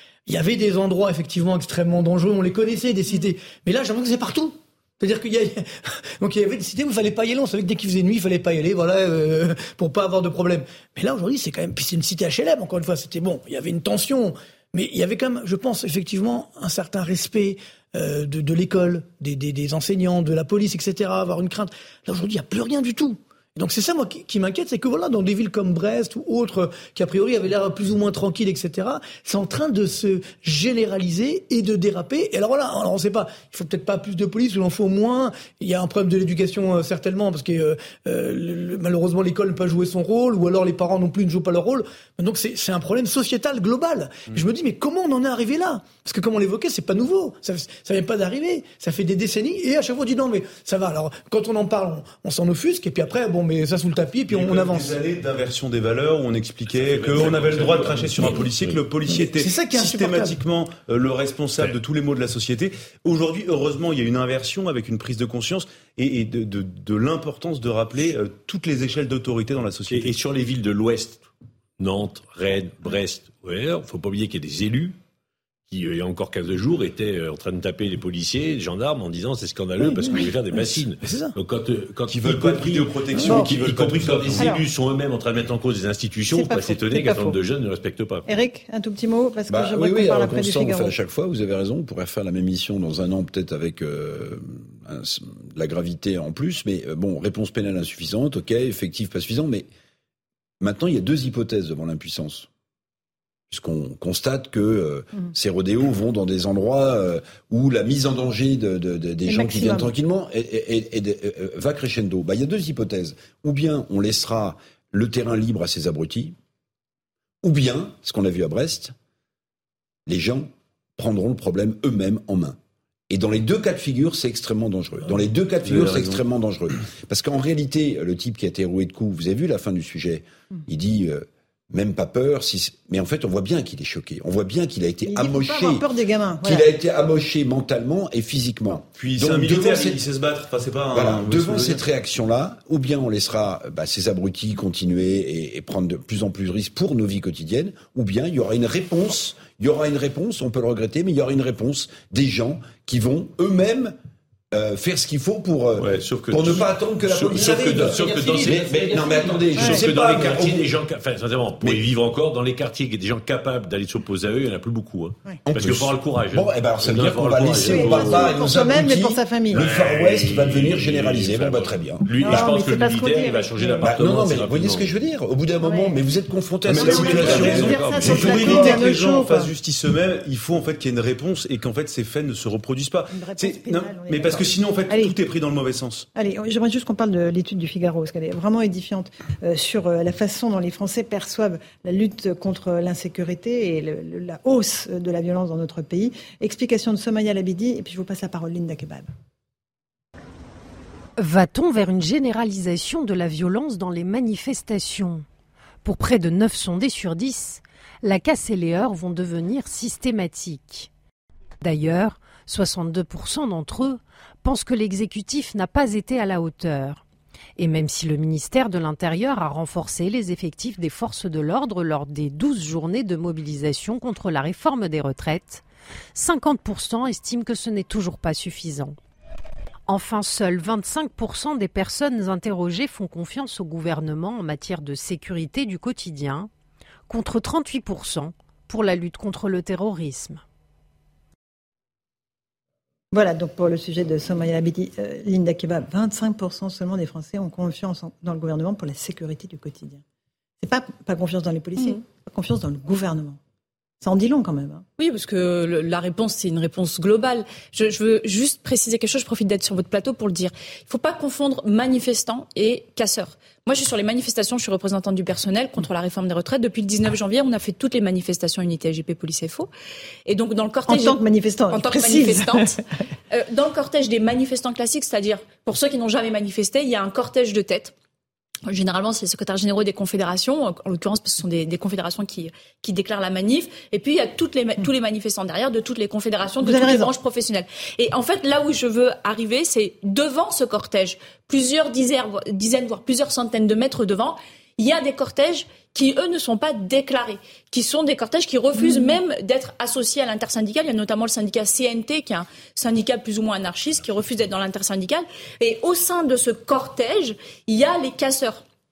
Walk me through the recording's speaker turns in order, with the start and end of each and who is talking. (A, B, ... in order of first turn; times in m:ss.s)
0:00.3-0:55.0 A
0:54.3-1:10.1 B
0:56.7-0:58.8 C
0:59.0-1:00.4 A
1:09.9-1:11.3 C
1:11.8-1:15.0 C
1:15.7-1:28.2 C
1:19.8-1:21.3 A
1:22.1-1:24.5 B
1:23.2-1:23.5 A
1:24.4-1:24.6 D
1:26.3-1:27.4 D
1:28.2-1:30.9 D
1:29.5-1:39.7 E
1:40.6-1:42.5 E
1:43.5-1:56.4 E
1:49.2-1:49.9 D
1:57.4-1:58.9 E
2:00.1-2:02.6 E
2:03.1-2:15.8 E
2:05.8-2:06.0 C
2:15.0-2:16.6 D
2:16.4-2:20.0 E
2:19.0-2:21.8 B
2:20.9-2:33.9 E
2:34.5-2:40.7 E
2:35.8-2:48.4 C
2:39.6-2:39.8 D
2:45.4-2:52.4 E
2:47.6-2:49.7 D
2:49.5-2:55.0 C
2:52.2-2:53.9 D
2:53.8-2:58.5 E
2:55.6-2:55.9 D
2:56.6-2:58.6 C
2:56.7-2:59.5 D
2:56.8-3:06.1 B
3:03.1-3:05.1 D
3:06.2-3:19.1 D
3:21.2-3:25.2 F
3:25.8-3:30.9 F
3:31.6-3:37.0 F
3:37.6-3:49.0 F
3:49.9-3:56.5 F
3:57.1-4:00.4 F
4:03.1-4:10.0 D
4:10.6-4:13.4 D
4:14.0-4:14.8 D
4:15.0-4:29.7 G
4:30.3-4:31.2 G
4:30.9-4:32.8 D
4:31.7-4:32.8 G
4:33.3-4:37.9 G
4:38.7-5:08.6 G
4:46.6-4:47.1 D
4:58.8-4:59.1 D